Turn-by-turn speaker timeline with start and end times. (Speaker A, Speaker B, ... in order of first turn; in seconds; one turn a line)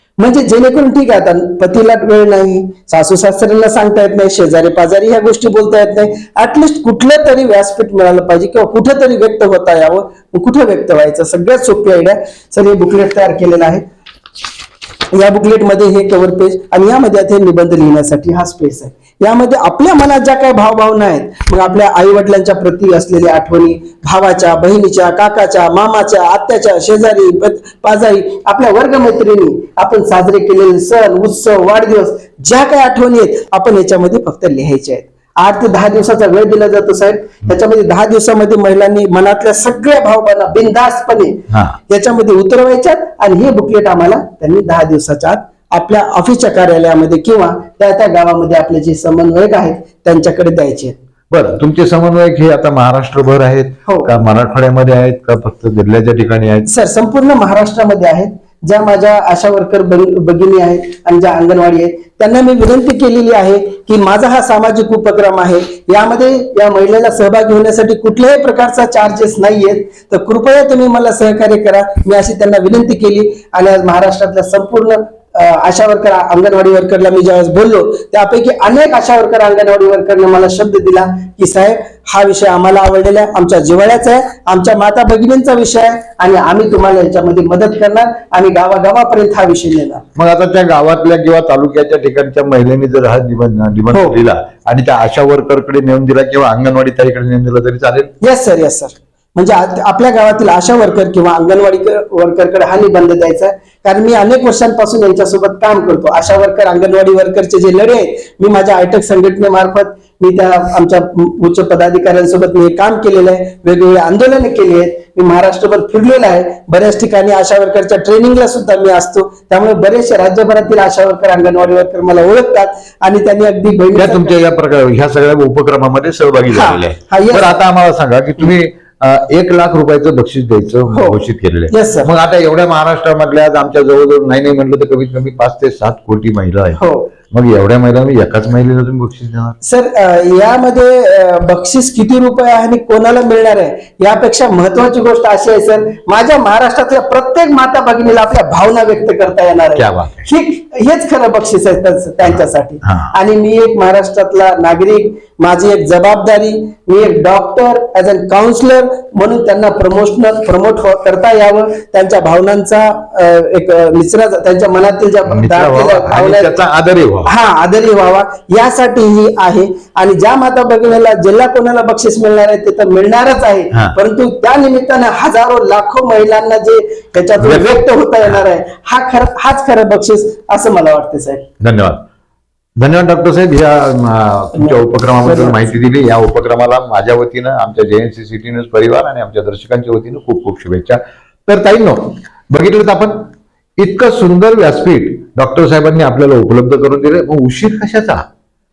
Speaker A: 0.2-13.8
Speaker A: 15.1-51.0
Speaker B: 41.5-41.8
Speaker B: 51.3-56.7
Speaker A: 56.6-90.0
Speaker B: 90.2-98.1
Speaker A: 93.9-94.2
Speaker A: 98.2-124.3
Speaker B: 124.0-139.6
Speaker A: 126.5-127.6
Speaker A: 130.9-132.1
Speaker A: 136.8-137.1
Speaker A: 139.6-166.6
Speaker B: 149.8-150.3
Speaker B: 152.2-153.1
Speaker B: 165.3-167.3
Speaker A: 167.2-181.5
Speaker B: 177.4-178.4
Speaker B: 181.6-182.0
Speaker B: 182.8-198.2
Speaker A: 184.5-185.7